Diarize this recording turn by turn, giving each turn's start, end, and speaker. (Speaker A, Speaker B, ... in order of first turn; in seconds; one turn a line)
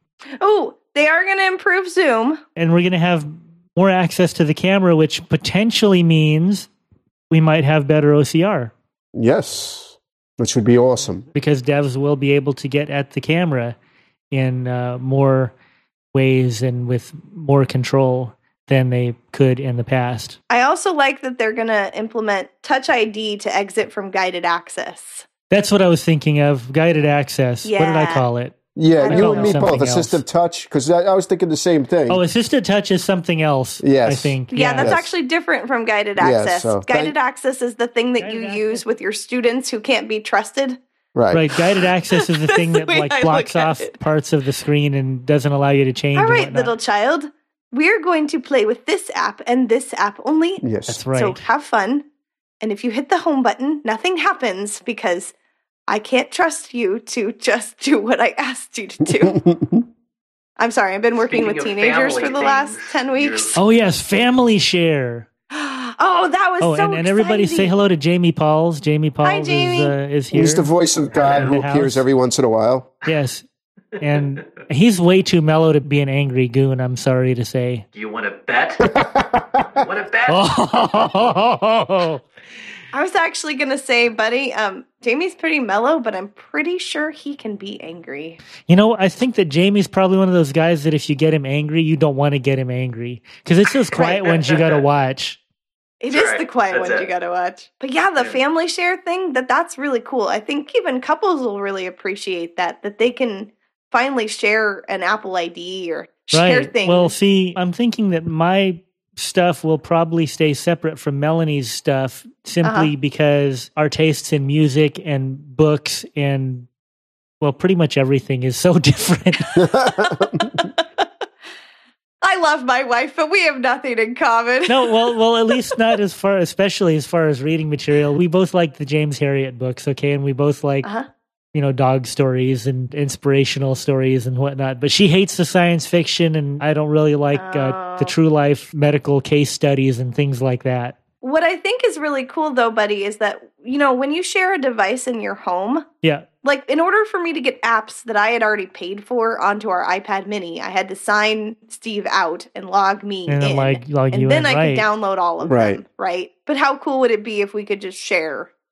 Speaker A: 0.4-2.4
Speaker B: 2.5-6.7
Speaker B: 7.3-8.7
Speaker C: 9.1-11.2
Speaker B: 11.4-13.8
Speaker B: 14.3-15.5
Speaker B: 16.1-20.4
Speaker A: 20.5-25.2
Speaker B: 25.5-30.2
Speaker A: 27.6-28.2
Speaker C: 28.8-32.2
Speaker A: 29.0-29.7
Speaker B: 32.1-35.0
Speaker C: 33.8-35.1
Speaker A: 34.5-40.8
Speaker C: 36.2-37.1
Speaker B: 38.2-38.8
Speaker C: 41.1-41.4
Speaker B: 41.3-46.7
Speaker A: 42.2-43.9
Speaker A: 46.1-52.0
Speaker C: 50.6-51.0
Speaker B: 50.9-51.4
Speaker A: 52.6-55.3
Speaker A: 55.9-59.4
Speaker C: 59.1-59.9
Speaker A: 60.6-63.6
Speaker D: 61.1-63.5
Speaker B: 63.5-65.3
Speaker A: 65.5-67.8
Speaker B: 66.6-70.7
Speaker A: 69.2-69.9
Speaker C: 70.3-72.9
Speaker D: 71.1-71.5
Speaker B: 71.2-72.0
Speaker B: 73.0-73.4
Speaker B: 74.0-77.8
Speaker D: 74.2-74.6
Speaker D: 77.9-79.0
Speaker C: 78.8-79.8
Speaker D: 79.7-80.4
Speaker B: 80.3-82.2
Speaker A: 82.9-88.4
Speaker B: 88.7-95.4
Speaker A: 93.9-94.4
Speaker D: 94.3-94.8
Speaker A: 96.0-107.1
Speaker D: 96.1-97.1
Speaker D: 98.2-98.4
Speaker B: 106.3-116.7
Speaker A: 112.6-112.9
Speaker B: 117.4-119.6
Speaker C: 119.6-120.7
Speaker A: 119.8-121.0
Speaker A: 122.2-125.5
Speaker B: 124.7-130.9
Speaker B: 131.5-141.0
Speaker A: 137.3-138.1
Speaker A: 141.2-145.9
Speaker A: 146.4-158.5
Speaker B: 153.3-154.9
Speaker C: 155.4-155.8